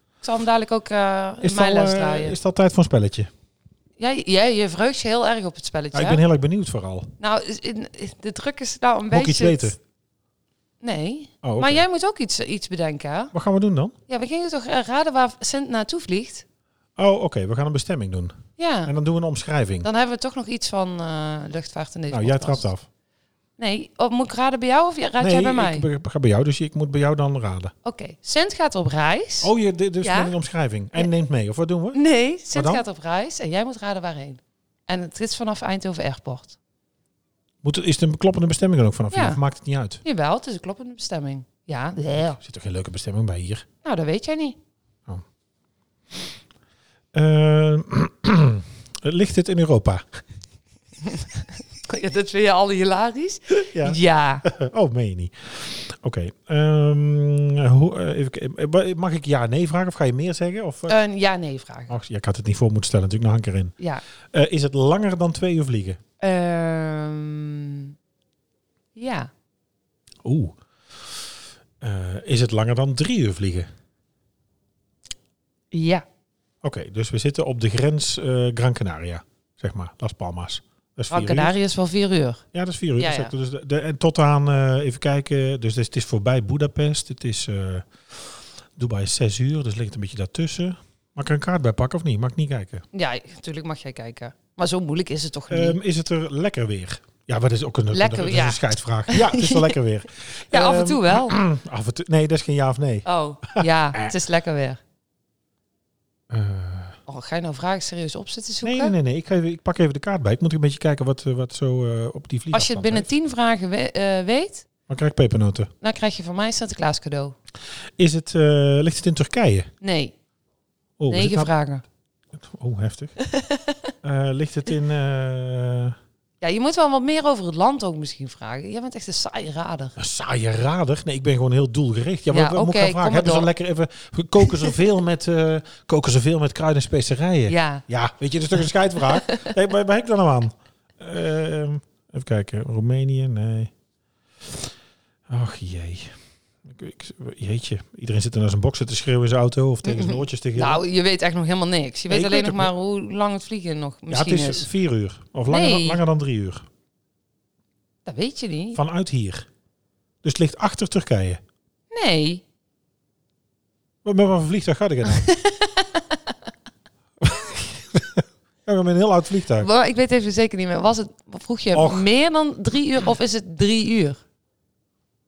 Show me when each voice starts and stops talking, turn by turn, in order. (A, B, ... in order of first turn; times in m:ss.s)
0:00.2-0:02.4 A
0:01.4-0:03.3 B
0:04.0-0:06.2 A
0:05.9-0:07.1 B
0:07.2-0:09.8 A
0:09.1-0:09.8 B
0:10.8-0:13.3 A
0:11.4-0:11.8 B
0:13.3-0:14.0 B
0:14.1-0:16.4 A
0:17.0-0:19.9 B
0:18.6-0:18.9 A
0:19.8-0:22.7 A
0:22.1-0:22.9 B
0:23.6-0:25.9 A
0:25.2-0:27.7 B
0:27.8-0:30.3 A
0:29.4-0:32.0 B
0:31.9-0:36.6 A
0:32.5-0:32.8 B
0:37.6-0:40.0 B
0:39.1-0:39.4 A
0:40.0-0:42.4 A
0:42.4-0:43.6 B
0:43.8-0:44.6 A
0:47.1-0:50.2 B
0:51.9-0:54.4 A
0:53.5-1:01.0 B
1:00.9-1:02.0 A
1:01.9-1:03.7 B
1:04.3-1:06.0 B
1:06.2-1:07.9 A
1:09.0-1:09.3 A
1:10.2-1:11.2 B
1:11.8-1:13.7 B
1:15.7-1:16.0 A
1:16.6-1:21.6 B
1:21.1-1:22.4 A
1:22.5-1:32.8 B
1:23.0-1:23.3 A
1:32.9-1:35.8 A
1:35.5-1:44.2 B
1:37.9-1:39.8 A
1:40.5-1:41.4 A
1:43.0-1:44.8 A
1:46.3-1:47.0 B
1:47.1-1:49.0 A
1:48.6-1:53.1 B
1:52.5-1:54.7 A
1:54.9-1:55.7 B
1:55.8-1:57.4 A
1:58.0-1:59.7 B
1:59.8-2:00.1 A
2:01.0-2:01.5 B
2:01.1-2:01.8 A
2:02.3-2:03.2 B
2:03.3-2:03.8 A
2:04.0-2:06.0 B
2:06.4-2:10.0 A
2:10.0-2:23.7 B
2:12.3-2:13.5 A
2:14.5-2:14.7 A
2:17.5-2:17.8 A
2:19.0-2:19.5 A
2:25.3-2:30.8 B
2:29.8-2:34.7 A
2:32.1-2:32.7 B
2:34.1-2:36.7 B
2:35.5-2:36.0 A
2:38.0-2:38.8 A
2:38.7-2:39.5 B
2:40.2-2:41.4 B
2:41.9-2:42.4 A
2:44.0-2:45.3 B
2:45.0-2:46.2 A
2:47.2-2:49.7 B
2:49.6-2:54.2 A
2:51.7-2:52.1 B